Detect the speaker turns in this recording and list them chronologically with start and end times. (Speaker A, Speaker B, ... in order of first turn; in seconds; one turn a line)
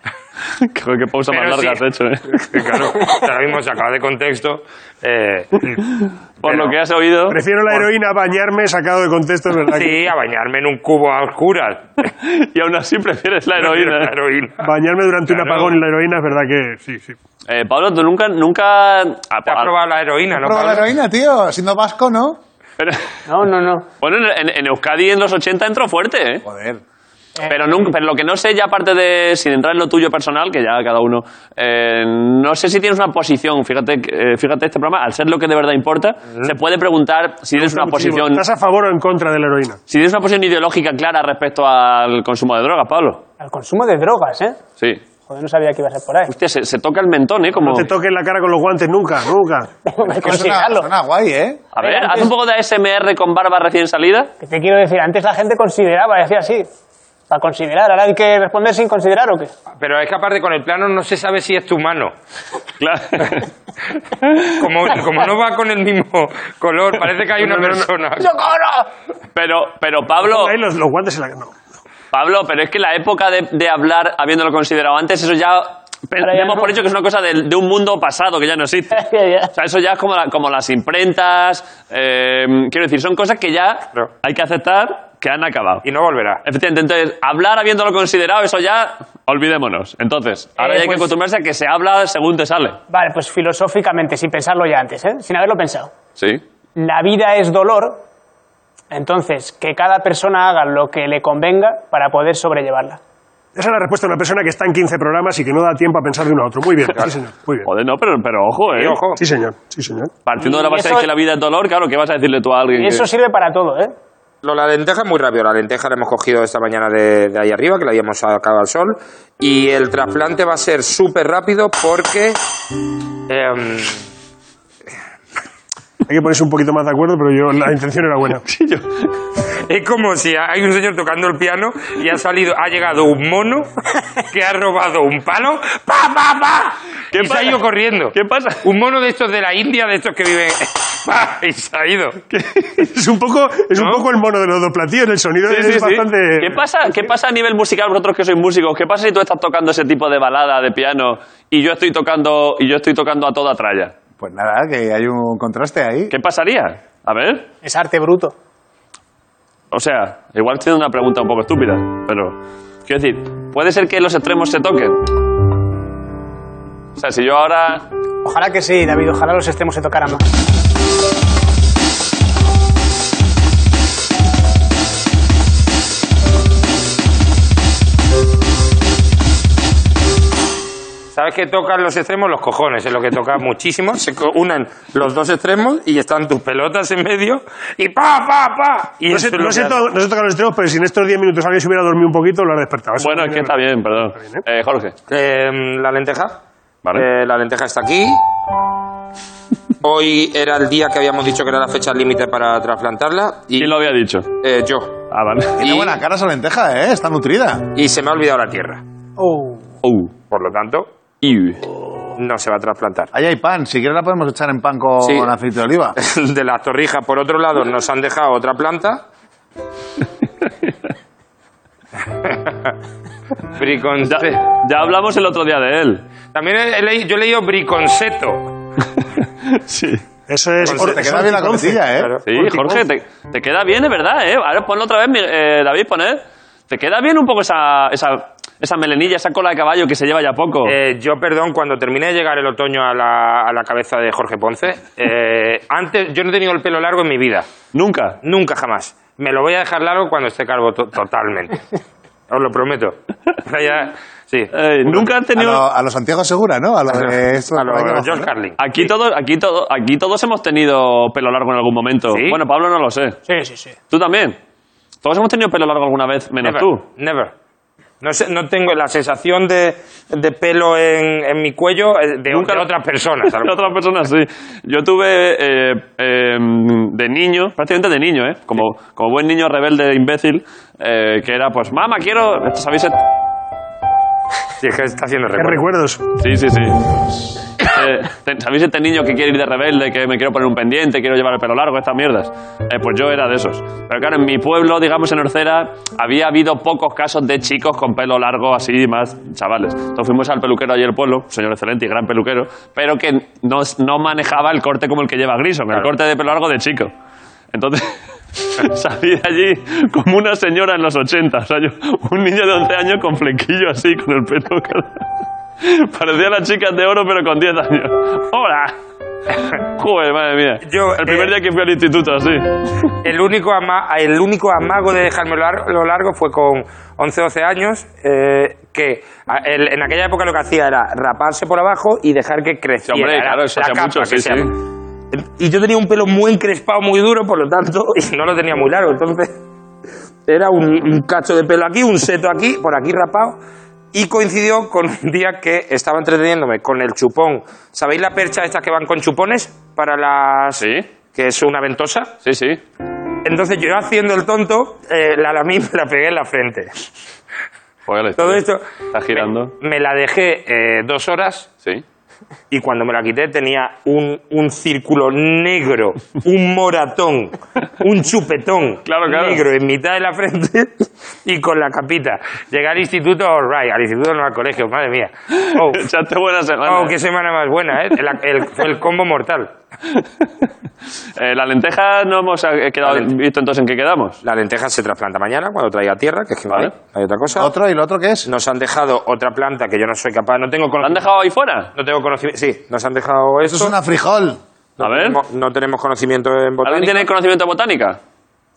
Speaker A: 0.6-2.6
Speaker B: 1.3-1.8
Speaker B: 2.3-5.7
Speaker A: 6.0-7.4
Speaker B: 6.5-6.8
Speaker C: 7.3-10.0
Speaker B: 9.7-12.1
Speaker A: 12.2-14.1
Speaker B: 13.6-14.7
Speaker C: 14.6-17.1
Speaker A: 15.3-15.7
Speaker A: 17.5-19.7
Speaker B: 19.5-20.9
Speaker D: 20.3-22.4
Speaker A: 22.8-23.1
Speaker E: 23.3-23.9
Speaker A: 24.0-26.4
Speaker D: 26.4-26.8
Speaker E: 27.4-27.8
Speaker A: 27.5-38.4
Speaker C: 37.6-39.8
Speaker A: 39.9-43.2
Speaker E: 43.4-44.6
Speaker E: 45.3-46.3
Speaker A: 46.3-47.9
Speaker C: 47.5-49.7
Speaker E: 49.9-50.9
Speaker D: 50.0-51.6
Speaker A: 51.7-54.3
Speaker E: 51.8-52.3
Speaker E: 54.4-56.7
Speaker E: 57.3-59.5
Speaker B: 59.8-62.1
Speaker A: 62.8-63.5
Speaker B: 64.6-68.8
Speaker C: 67.4-67.8
Speaker A: 69.3-70.5
Speaker C: 70.2-71.5
Speaker A: 72.1-85.9
Speaker E: 76.2-76.8
Speaker E: 79.0-79.5
Speaker B: 85.8-86.4
Speaker A: 86.5-92.8
Speaker E: 90.6-91.1
Speaker E: 92.9-95.9
Speaker A: 96.2-96.4
Speaker E: 96.8-98.0
Speaker E: 98.9-103.0
Speaker C: 103.5-107.7
Speaker A: 107.7-109.0
Speaker B: 108.7-109.2
Speaker C: 109.2-110.1
Speaker A: 110.3-113.1
Speaker E: 110.4-111.1
Speaker E: 112.8-113.9
Speaker B: 114.4-122.4
Speaker B: 123.3-124.0
Speaker C: 126.1-128.4
Speaker A: 128.5-129.1
Speaker B: 129.7-133.7
Speaker B: 134.3-142.2
Speaker A: 137.1-137.6
Speaker A: 138.1-138.6
Speaker C: 142.5-146.6
Speaker B: 143.8-144.1
Speaker A: 145.5-153.9
Speaker D: 154.2-156.1
Speaker A: 156.1-157.5
Speaker E: 157.6-158.3
Speaker A: 159.7-165.0
Speaker A: 167.0-167.8
Speaker E: 168.2-170.3
Speaker B: 181.1-189.8
Speaker C: 189.1-193.6
Speaker A: 193.0-194.9
Speaker C: 194.1-194.4
Speaker B: 195.1-196.4
Speaker B: 196.9-198.2
Speaker B: 199.8-203.7
Speaker A: 203.6-204.3
Speaker B: 204.4-205.0
Speaker A: 205.1-205.9
Speaker D: 205.6-207.7
Speaker B: 207.8-208.8
Speaker E: 209.2-209.6
Speaker A: 209.8-210.1
Speaker B: 210.3-210.9
Speaker A: 211.2-211.6
Speaker B: 212.2-213.1
Speaker D: 213.1-216.0
Speaker B: 215.0-215.3
Speaker B: 216.0-219.1
Speaker B: 222.1-222.7
Speaker B: 223.6-224.4
Speaker A: 224.1-226.0
Speaker B: 226.3-228.5
Speaker A: 229.4-230.0
Speaker C: 230.3-232.8
Speaker D: 230.6-232.1
Speaker B: 230.7-231.0
Speaker B: 231.9-232.3
Speaker A: 232.3-240.8
Speaker B: 240.7-247.5
Speaker A: 247.7-248.2
Speaker B: 248.2-251.6
Speaker B: 252.3-255.1
Speaker A: 254.5-255.6
Speaker D: 255.3-258.3
Speaker B: 256.9-258.9
Speaker A: 258.6-263.2
Speaker B: 262.1-262.4
Speaker E: 263.3-263.8
Speaker A: 263.9-264.4
Speaker A: 265.0-266.8
Speaker B: 266.4-267.3
Speaker B: 268.0-273.7
Speaker A: 272.3-272.7
Speaker A: 273.3-283.0
Speaker B: 284.6-285.7
Speaker C: 285.4-286.0
Speaker A: 286.2-286.8
Speaker A: 287.6-306.9
Speaker A: 307.5-315.0
Speaker A: 315.6-318.8
Speaker A: 319.5-322.9
Speaker B: 320.6-321.3
Speaker B: 323.0-334.5
Speaker A: 332.9-334.5
Speaker B: 335.1-339.4
Speaker B: 340.3-343.4
Speaker B: 343.9-352.1
Speaker A: 350.6-350.9
Speaker A: 352.2-352.6
Speaker B: 353.2-356.9
Speaker A: 357.9-359.5
Speaker B: 358.2-361.5
Speaker B: 362.5-375.8
Speaker A: 368.9-369.4
Speaker A: 375.5-377.0
Speaker B: 376.7-379.5
Speaker A: 381.2-384.2
Speaker B: 382.8-383.1
Speaker B: 384.2-387.5
Speaker D: 387.3-388.3
Speaker B: 388.3-391.1
Speaker A: 390.8-391.7
Speaker B: 391.8-393.7
Speaker D: 393.4-394.4
Speaker B: 394.8-397.1
Speaker A: 394.8-395.2
Speaker A: 396.6-398.0